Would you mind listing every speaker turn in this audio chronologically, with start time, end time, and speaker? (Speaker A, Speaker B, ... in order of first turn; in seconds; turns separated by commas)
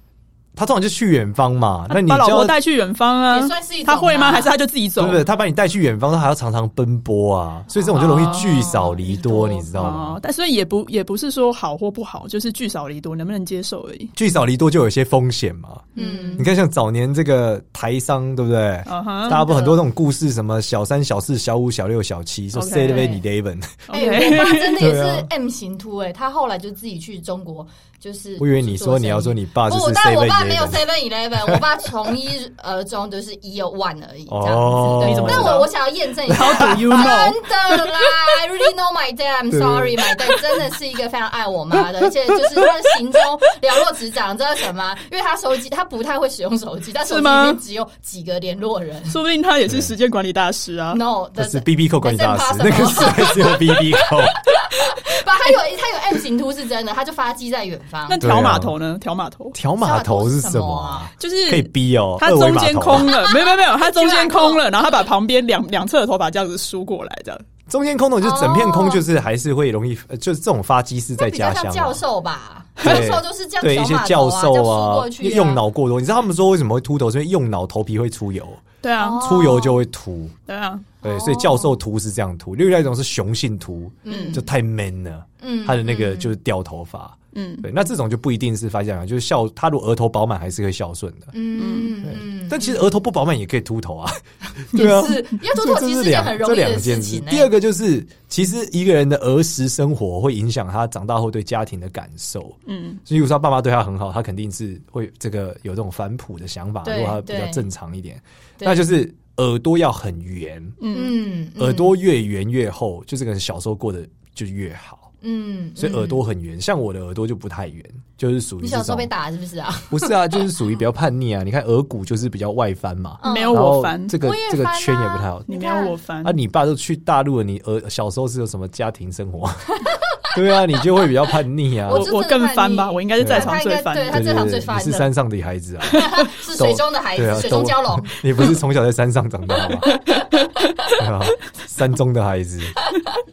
Speaker A: 0.6-2.5, Speaker B: 1.9-5.2, Speaker C: 3.3-4.5, Speaker A: 5.0-10.2, Speaker C: 7.8-9.7, Speaker B: 7.9-8.5, Speaker B: 9.7-14.1, Speaker A: 14.1-23.9, Speaker B: 15.9-16.5, Speaker C: 15.9-16.5, Speaker B: 18.9-19.5, Speaker C: 19.3-19.8, Speaker B: 22.5-23.1, Speaker C: 22.8-23.2, Speaker B: 23.9-24.8, Speaker C: 23.9-49.2, Speaker A: 24.8-25.3, Speaker A: 28.4-30.8, Speaker A: 34.3-35.7, Speaker B: 35.0-35.7, Speaker B: 36.3-37.4, Speaker A: 36.3-36.7, Speaker A: 39.5-40.1, Speaker B: 47.0-47.6, Speaker B: 49.1-51.0, Speaker C: 50.9-58.2, Speaker A: 51.4-54.4, Speaker B: 58.1-59.6, Speaker A: 58.2-58.8, Speaker A: 59.5-63.1, Speaker C: 59.8-61.1, Speaker B: 61.2-67.4, Speaker C: 63.0-64.9, Speaker A: 67.7-72.0, Speaker C: 68.2-69.0, Speaker C: 71.2-75.6, Speaker A: 72.8-78.6, Speaker B: 78.8-79.2, Speaker C: 79.0-79.8, Speaker A: 79.2-80.3, Speaker B: 80.5-80.8, Speaker C: 81.0-81.7, Speaker A: 81.0-91.3, Speaker C: 84.0-84.4, Speaker B: 84.1-84.4, Speaker C: 85.4-86.3, Speaker B: 87.3-87.7, Speaker C: 91.3-92.8, Speaker B: 91.5-91.9, Speaker A: 92.0-110.8, Speaker C: 94.7-97.5, Speaker B: 102.7-103.0, Speaker C: 106.8-107.6, Speaker C: 108.6-108.9, Speaker B: 110.8-111.2, Speaker C: 110.9-112.0, Speaker A: 111.6-115.1, Speaker C: 115.2-116.2, Speaker A: 115.8-119.1, Speaker C: 118.6-120.5, Speaker A: 119.9-125.6, Speaker C: 123.2-125.9, Speaker B: 123.2-124.2, Speaker B: 125.5-126.4, Speaker A: 126.2-129.8, Speaker A: 130.3-132.1, Speaker C: 131.8-135.1, Speaker B: 131.9-134.2, Speaker A: 133.2-133.5, Speaker A: 134.1-139.9, Speaker C: 135.9-138.2, Speaker B: 139.9-140.7, Speaker A: 141.0-142.8